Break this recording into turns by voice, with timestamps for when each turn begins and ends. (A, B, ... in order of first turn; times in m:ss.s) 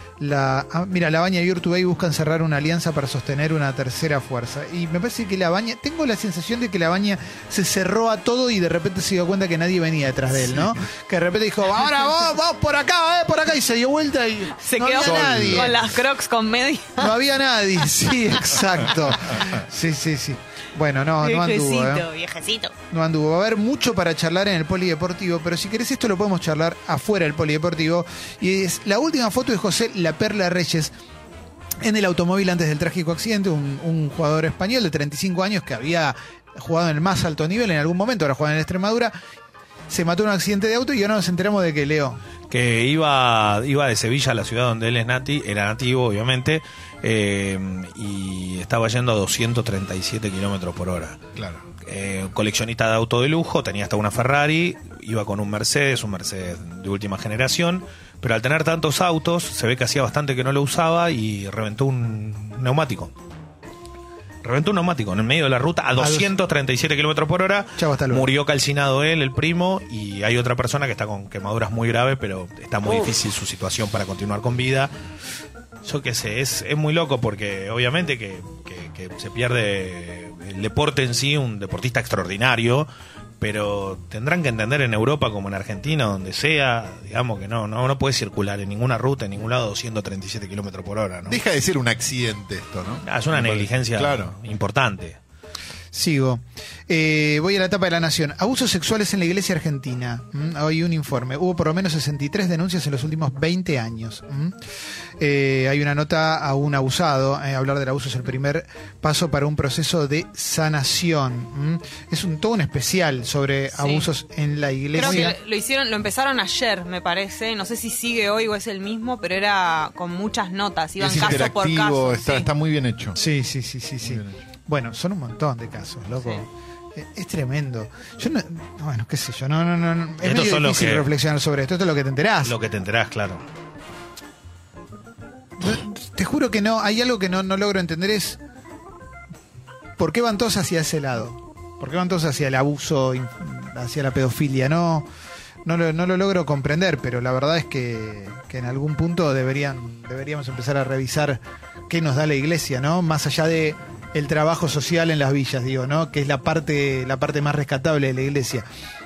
0:00.2-0:15.8 A
0:14.6-0:17.2 B
0:15.0-0:15.7 C
0:17.0-0:22.0 A
0:21.2-0:22.7 B
0:22.9-0:30.9 A
0:31.8-0:39.1 A
0:39.9-0:42.2 A
0:42.5-0:51.2 D
0:51.4-0:51.6 C
0:51.8-1:03.1 D
1:04.4-1:14.9 D
1:06.0-1:06.3 A
1:07.8-1:08.3 A
1:15.8-1:22.9 D
1:23.4-1:31.4 D
1:31.2-1:34.3 C
1:33.0-1:35.2 D
1:35.9-1:44.5 A
1:45.2-1:55.4 A
1:53.7-1:54.1 B
1:54.9-2:02.5 B
1:55.0-1:55.3 C
2:01.0-2:03.2 C
2:03.1-2:12.5 A
2:04.0-2:04.4 C
2:06.1-2:06.4 B
2:10.2-2:11.0 D
2:12.4-2:13.4 D
2:15.6-2:18.4 A
2:20.0-2:25.1 A
2:25.6-2:38.6 A